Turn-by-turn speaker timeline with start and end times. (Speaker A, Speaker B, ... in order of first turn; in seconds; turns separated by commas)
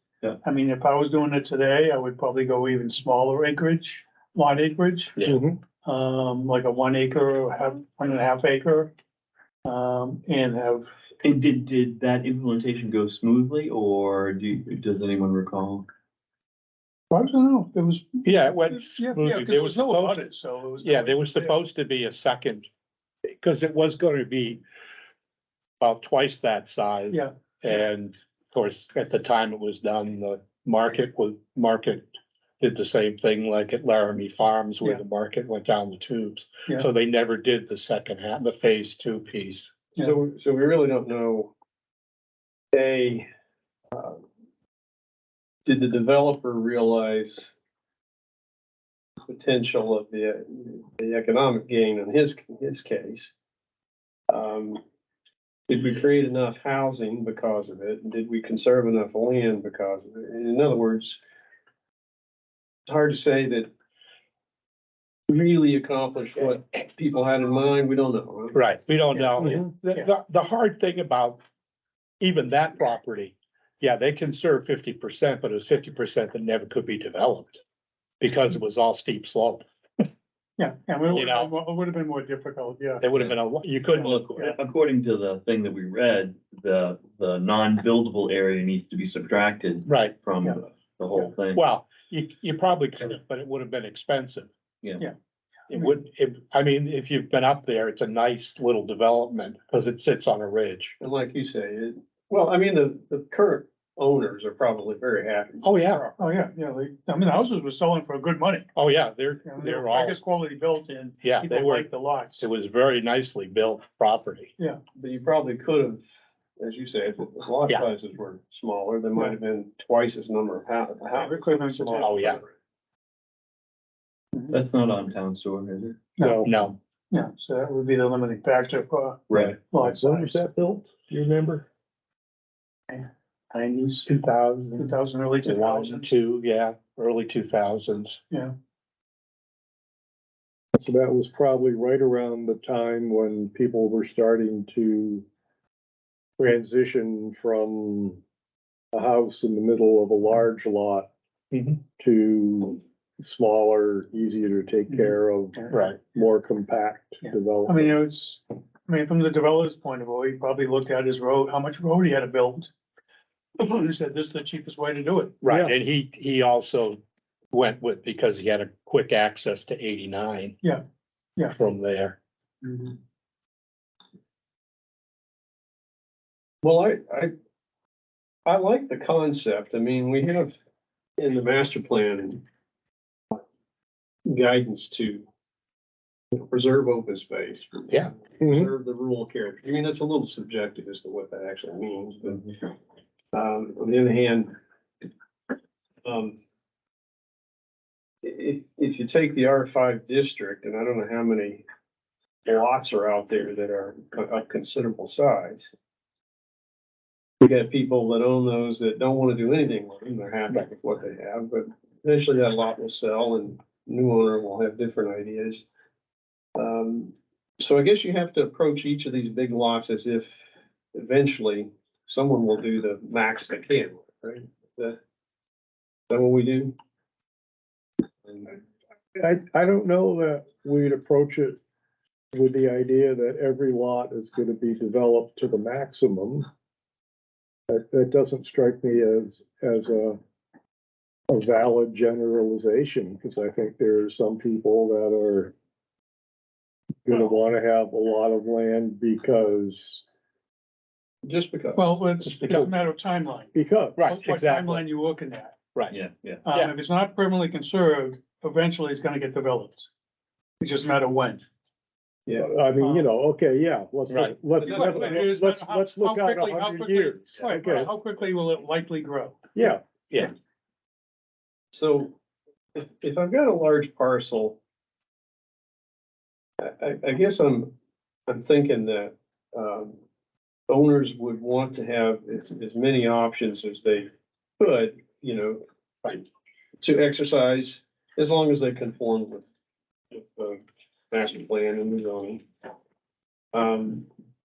Speaker A: 0.4-5.2, Speaker B: 5.3-5.6, Speaker A: 5.8-8.9, Speaker A: 9.7-10.9, Speaker C: 11.2-15.9, Speaker A: 17.1-21.6, Speaker D: 18.2-20.3, Speaker D: 20.8-22.7, Speaker D: 23.4-24.6, Speaker D: 25.8-32.0, Speaker D: 32.6-39.8, Speaker E: 39.9-41.5, Speaker E: 42.7-43.3, Speaker E: 43.9-44.2, Speaker E: 45.6-47.5, Speaker E: 49.3-53.3, Speaker E: 54.3-54.8, Speaker E: 55.7-61.2, Speaker E: 62.9-63.7, Speaker E: 65.3-69.2, Speaker D: 68.5-71.4, Speaker B: 69.4-69.7, Speaker D: 72.2-77.6, Speaker D: 78.2-79.6, Speaker A: 80.6-83.1, Speaker D: 81.1-81.5, Speaker D: 83.0-84.5, Speaker A: 83.9-84.6, Speaker C: 84.1-91.6, Speaker D: 89.9-90.1, Speaker D: 91.5-94.5, Speaker D: 95.7-101.0, Speaker A: 95.7-96.0, Speaker E: 101.0-106.2, Speaker D: 105.6-106.0, Speaker A: 106.2-108.7, Speaker D: 108.8-110.2, Speaker A: 109.5-112.5, Speaker D: 111.2-111.9, Speaker D: 112.4-114.5, Speaker E: 115.0-122.5, Speaker A: 121.1-122.2, Speaker D: 122.0-122.4, Speaker C: 124.5-126.0, Speaker A: 126.2-126.5, Speaker B: 126.2-126.6, Speaker D: 126.5-126.7, Speaker A: 127.1-130.4, Speaker C: 129.3-129.6, Speaker B: 129.8-131.7, Speaker A: 132.9-134.1, Speaker D: 134.1-138.2, Speaker A: 134.8-136.1, Speaker B: 140.8-145.2, Speaker B: 146.4-148.2, Speaker B: 148.9-151.1, Speaker D: 151.5-151.8, Speaker B: 152.0-157.9, Speaker A: 154.9-155.8, Speaker D: 155.7-156.0, Speaker A: 157.2-162.7, Speaker A: 163.6-165.3, Speaker B: 165.4-165.7, Speaker D: 165.4-167.0, Speaker D: 167.5-170.6, Speaker D: 171.6-172.2, Speaker A: 172.6-173.0, Speaker E: 176.6-177.3, Speaker E: 178.5-180.6, Speaker E: 181.2-182.4, Speaker E: 184.3-185.3, Speaker E: 186.3-192.5, Speaker B: 188.4-188.7, Speaker E: 193.3-194.6, Speaker E: 196.0-196.4, Speaker E: 198.2-201.7, Speaker E: 202.5-205.7, Speaker E: 207.4-215.7, Speaker E: 216.6-220.4, Speaker E: 220.9-225.0, Speaker E: 226.1-226.8, Speaker B: 229.2-231.6, Speaker B: 232.3-236.5, Speaker B: 237.7-240.2, Speaker B: 241.3-245.5, Speaker B: 247.0-250.0, Speaker E: 251.2-252.0, Speaker A: 251.8-255.6, Speaker D: 252.2-252.7, Speaker B: 253.5-254.0, Speaker D: 254.0-254.8, Speaker C: 255.9-256.4, Speaker A: 256.4-259.9, Speaker A: 260.6-261.4, Speaker B: 262.4-267.9, Speaker A: 262.8-263.1, Speaker D: 264.1-264.4, Speaker E: 264.5-265.3, Speaker A: 264.6-269.5, Speaker B: 269.6-269.8, Speaker E: 271.7-272.2, Speaker E: 272.8-274.6, Speaker E: 276.6-277.7, Speaker E: 278.3-280.0, Speaker E: 280.7-286.2, Speaker E: 286.8-289.5, Speaker E: 290.1-292.4, Speaker E: 293.5-294.1